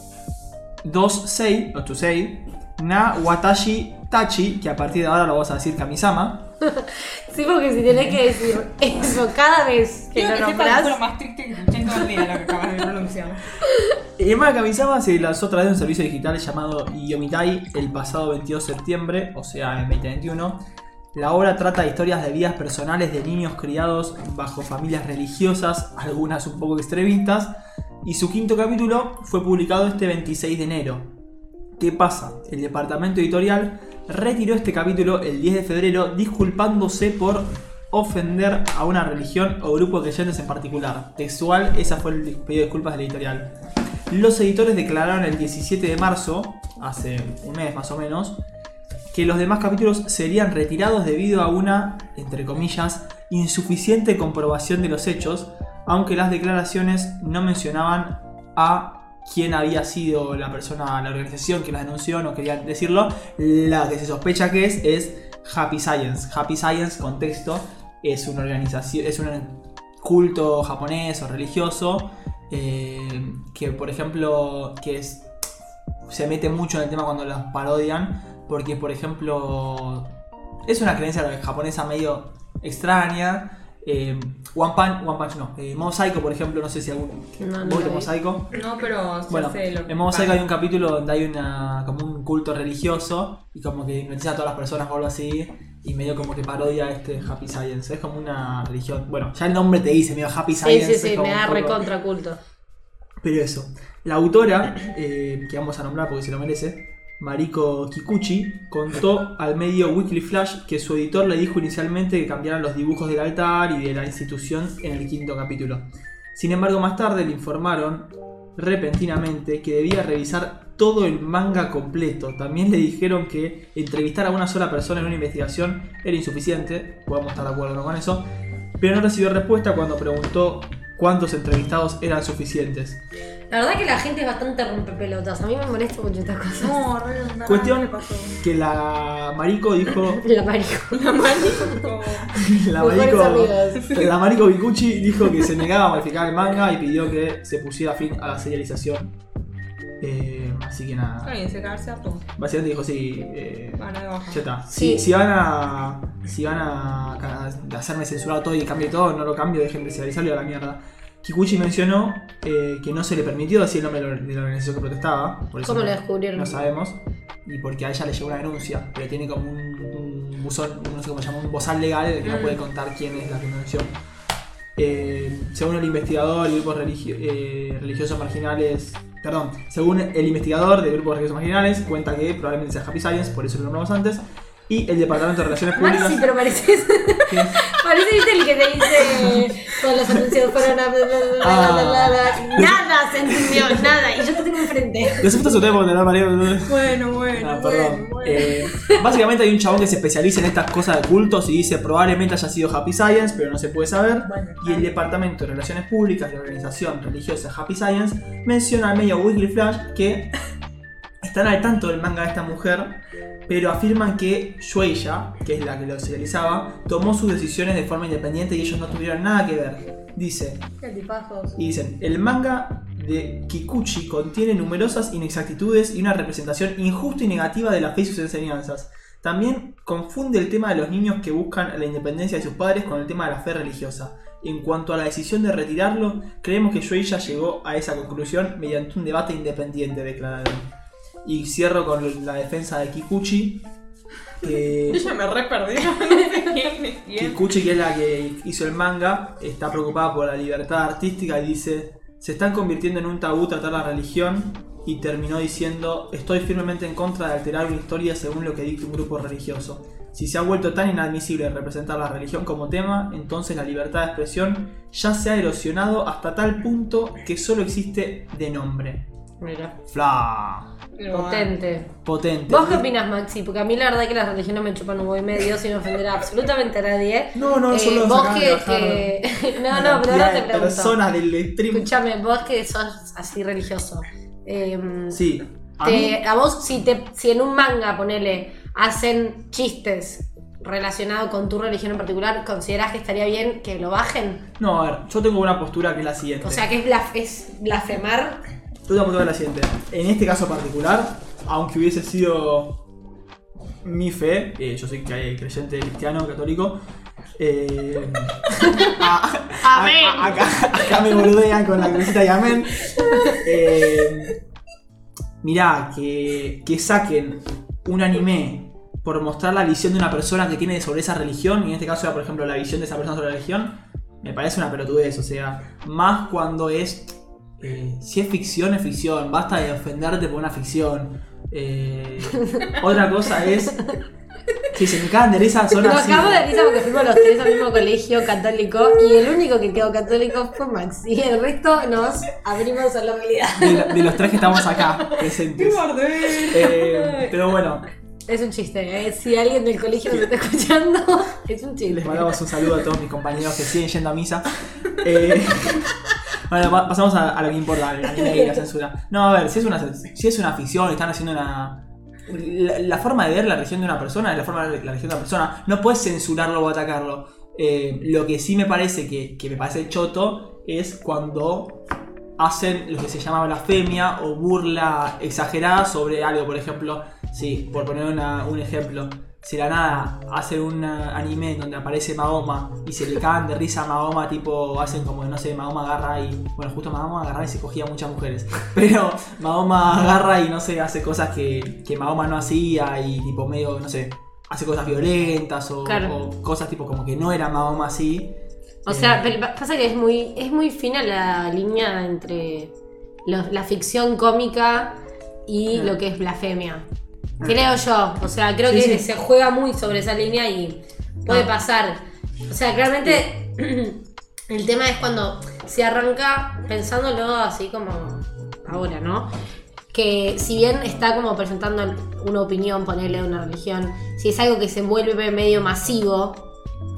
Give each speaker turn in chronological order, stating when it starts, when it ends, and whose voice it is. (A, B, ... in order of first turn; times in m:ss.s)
0:00.8-0:06.5 A
0:06.6-0:11.0 B
0:07.9-0:08.2 A
0:10.1-0:13.4 C
0:14.2-0:20.6 A
0:21.1-0:31.1 A
0:31.8-0:43.5 A
0:44.1-0:48.4 A
0:49.1-1:15.3 A
1:16.1-1:20.1 A
1:20.6-1:28.6 A
1:27.4-1:28.1 B
1:28.5-1:30.4 C
1:29.3-1:41.8 A
1:40.6-1:42.4 B
1:43.2-2:08.2 A
2:08.8-2:13.0 A
2:13.5-2:16.8 B
2:16.6-2:18.4 C
2:17.4-2:20.2 A
2:20.2-2:21.8 B
2:20.9-2:22.3 C
2:22.3-2:29.1 A
2:22.8-2:23.9 B
2:23.8-2:24.1 C
2:30.0-2:31.4 A
2:31.2-2:32.2 C
2:32.4-2:53.9 A
2:33.8-2:34.4 C
2:34.7-2:35.1 B
2:45.6-2:46.6 B
2:52.2-2:52.6 B
2:54.8-3:06.2 A
3:05.7-3:15.3 B
3:07.3-3:07.7 A
3:11.4-3:14.0 A
3:15.2-3:16.8 A
3:16.6-3:18.6 C
3:17.3-3:30.3 A
3:18.7-3:19.0 B
3:24.3-3:24.9 C
3:31.2-3:40.6 A
3:40.8-3:41.5 C
3:40.9-3:41.5 B
3:41.6-4:00.7 A
4:01.2-4:03.7 A
4:04.4-4:05.1 A
4:04.4-4:07.4 C
4:07.2-4:29.1 A
4:29.4-4:29.8 B
4:29.9-4:30.7 A
4:31.0-4:31.6 C
4:31.1-4:31.9 B
4:32.0-4:32.8 A
4:32.5-4:41.0 B
4:37.3-4:39.1 A
4:39.7-4:41.9 A
4:41.7-4:45.2 B
4:45.1-4:46.2 A
4:45.8-4:54.5 B
4:54.6-4:56.6 A
4:56.4-4:58.4 B
4:58.9-5:02.8 A
5:03.8-5:06.8 A
5:07.4-5:14.4 A
5:08.6-5:08.9 B
5:09.6-5:10.6 B
5:12.9-5:13.4 B
5:15.4-5:33.8 A
5:34.7-5:36.6 A
5:35.7-5:44.8 B
5:43.6-5:45.8 A
5:45.5-5:46.9 C
5:46.5-5:47.8 A
5:46.7-5:47.3 B
5:48.3-5:52.4 B
5:51.9-5:55.9 A
5:56.5-6:11.8 A
6:12.4-6:38.3 A
6:35.8-6:36.1 B
6:38.9-6:42.7 B
6:38.9-6:39.3 A
6:43.2-6:46.9 B
6:47.4-6:47.8 A
6:47.4-6:59.3 B
6:48.7-6:49.0 A
6:59.9-7:06.4 B